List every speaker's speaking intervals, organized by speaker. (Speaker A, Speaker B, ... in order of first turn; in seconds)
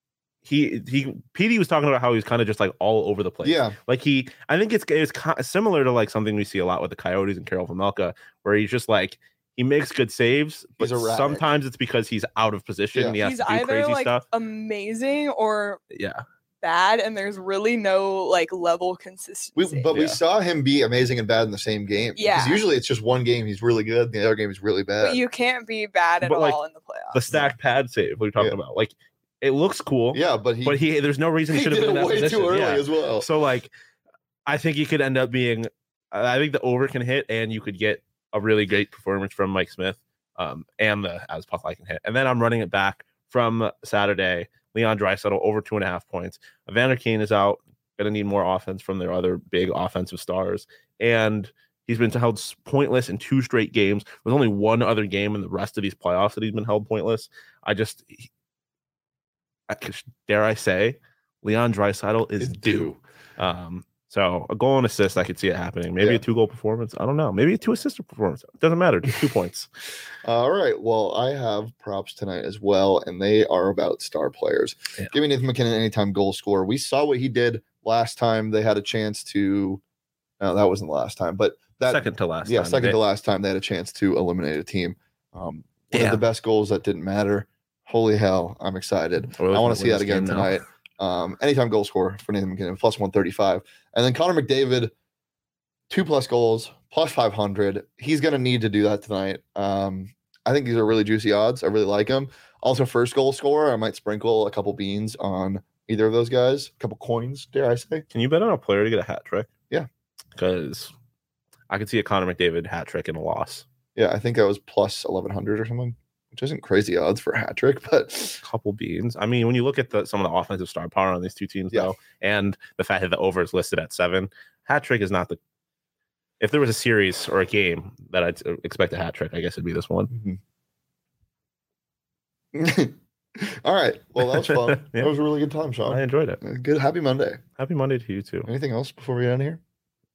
Speaker A: 0.4-14.2, 15.9-16.2, 19.9-20.2, 26.2-26.6, 27.1-33.7, 34.5-58.3, 59.7-69.7, 81.9-83.0, 85.9-86.2, 89.4-90.6, 108.1-109.5, 110.3-110.9, 111.7-113.7, 118.4-125.4, 126.4-130.1, 134.2-135.1, 135.9-136.4, 137.6-138.5
Speaker B: 3.4-3.8, 10.8-11.5, 12.9-13.2, 19.6-25.2, 30.1-30.8, 31.5-33.3, 62.4-63.0, 70.2-79.8, 80.4-94.9, 95.9-108.0, 114.0-118.4, 130.1-130.4, 132.5-137.4, 138.5-139.6
Speaker C: 13.2-15.8, 16.6-19.9, 22.1-22.7, 25.0-27.3